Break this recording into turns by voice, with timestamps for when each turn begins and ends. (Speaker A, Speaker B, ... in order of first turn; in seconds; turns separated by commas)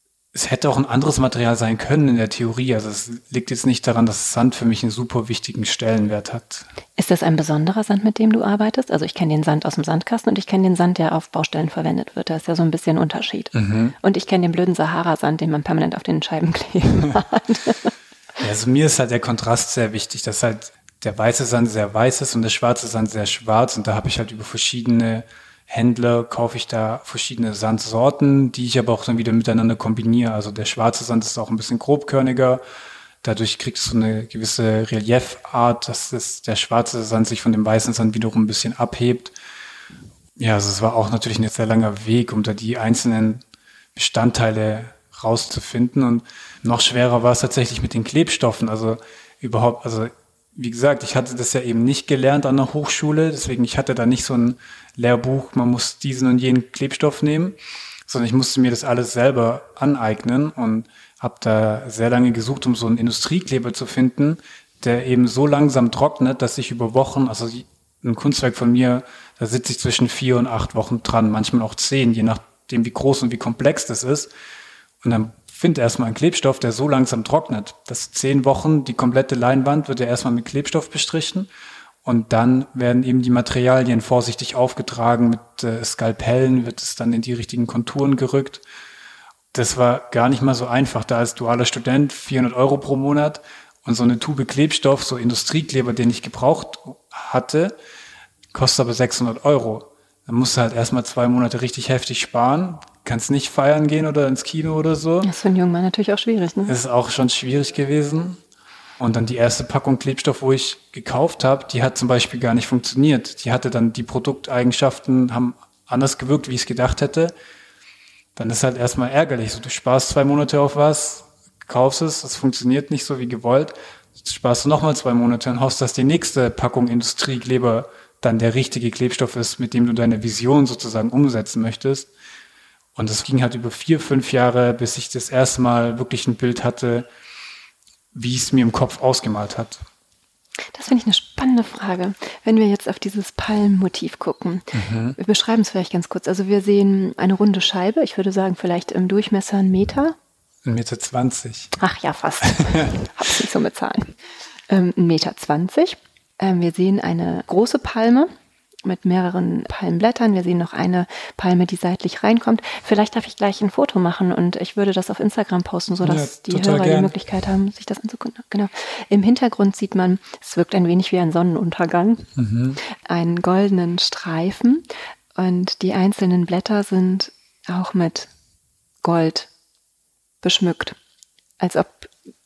Speaker A: 0.3-6.7, Speaker B: 7.0-17.9, Speaker A: 13.5-13.9, Speaker A: 18.4-32.6, Speaker A: 33.2-39.4, Speaker A: 40.4-43.4, Speaker A: 44.0-74.3, Speaker A: 75.0-81.5, Speaker A: 82.0-88.6, Speaker A: 89.5-97.8, Speaker A: 98.5-105.3, Speaker B: 105.2-106.8, Speaker A: 106.7-108.4, Speaker A: 109.0-117.3, Speaker A: 118.4-132.1, Speaker A: 133.0-137.1, Speaker A: 138.1-139.8, Speaker B: 140.8-150.2, Speaker A: 144.7-145.2, Speaker A: 150.7-151.8, Speaker B: 151.8-154.2, Speaker A: 152.6-152.9, Speaker B: 154.7-158.3, Speaker B: 158.8-174.9, Speaker A: 166.0-167.1, Speaker A: 172.4-172.8, Speaker B: 175.4-178.3, Speaker B: 179.0-179.5, Speaker B: 180.4-181.0, Speaker B: 181.6-182.1